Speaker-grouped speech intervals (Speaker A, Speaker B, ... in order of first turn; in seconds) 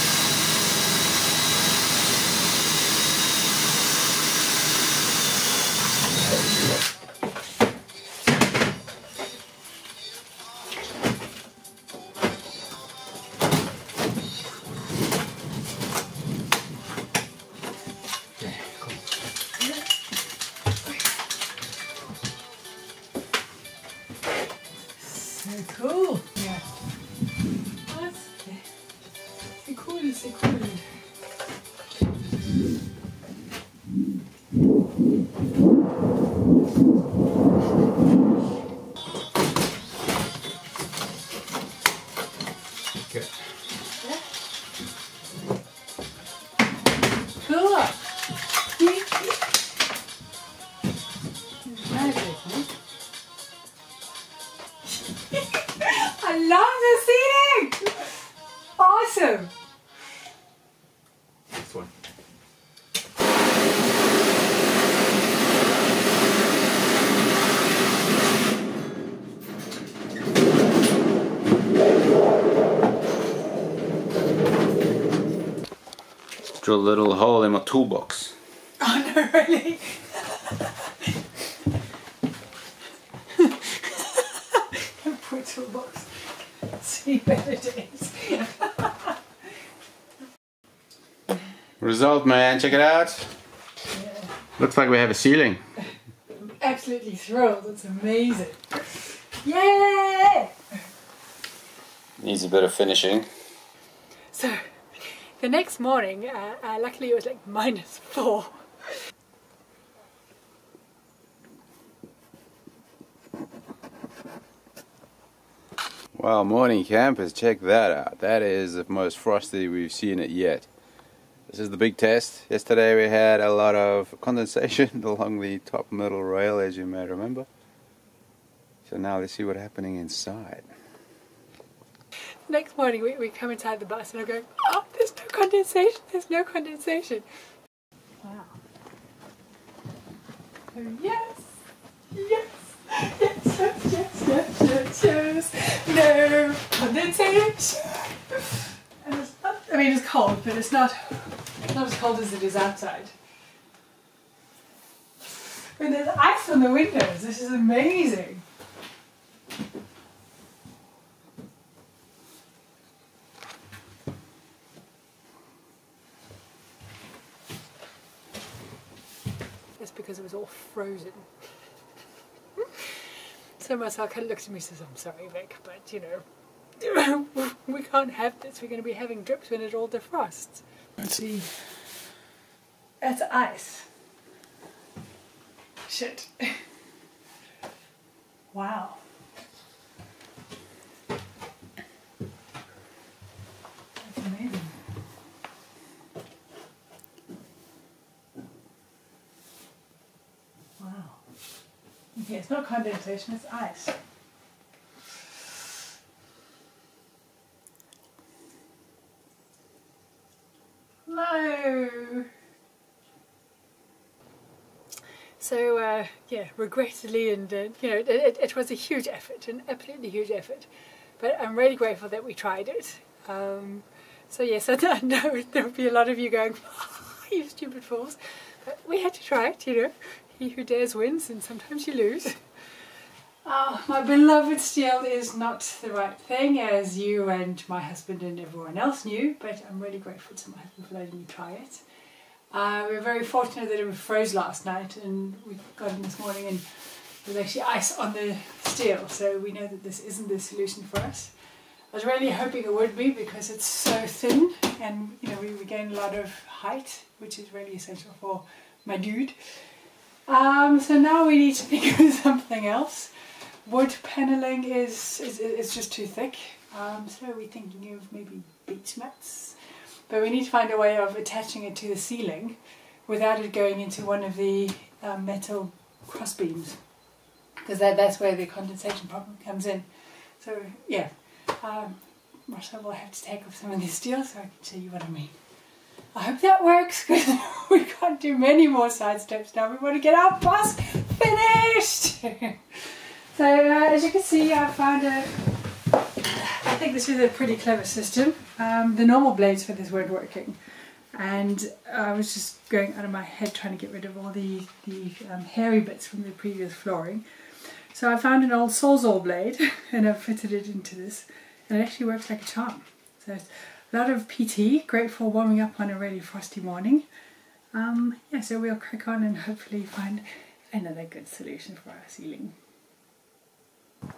Speaker A: 18.4-19.0, 43.1-43.3, 61.5-61.9, 76.6-78.3, 91.8-93.3, 94.6-95.6, 102.2-103.3, 116.1-120.7, 121.5-127.5, 128.8-130.6
Speaker B: 25.0-26.6, 27.9-28.6, 29.6-30.8, 47.4-48.1, 48.6-49.5, 51.6-52.7, 55.1-58.1, 58.8-59.5, 78.8-81.1, 83.4-89.2, 93.9-94.3, 96.3-100.5, 104.3-108.9, 132.5-137.2, 138.2-138.5, 140.7-141.5, 142.1-153.1, 155.8-158.4, 169.8-171.3, 172.6-172.8, 173.6-176.2, 176.8-181.5, 183.0-183.9, 185.9-186.6, 188.5-189.0, 194.0-194.8, 200.8-201.2, 202.2-204.0, 211.1-212.3, 215.4-232.4, 233.4-241.8, 242.5-251.3, 251.9-259.5, 260.3-276.8, 277.6-285.3, 286.1-295.4, 296.2-317.1, 317.7-322.5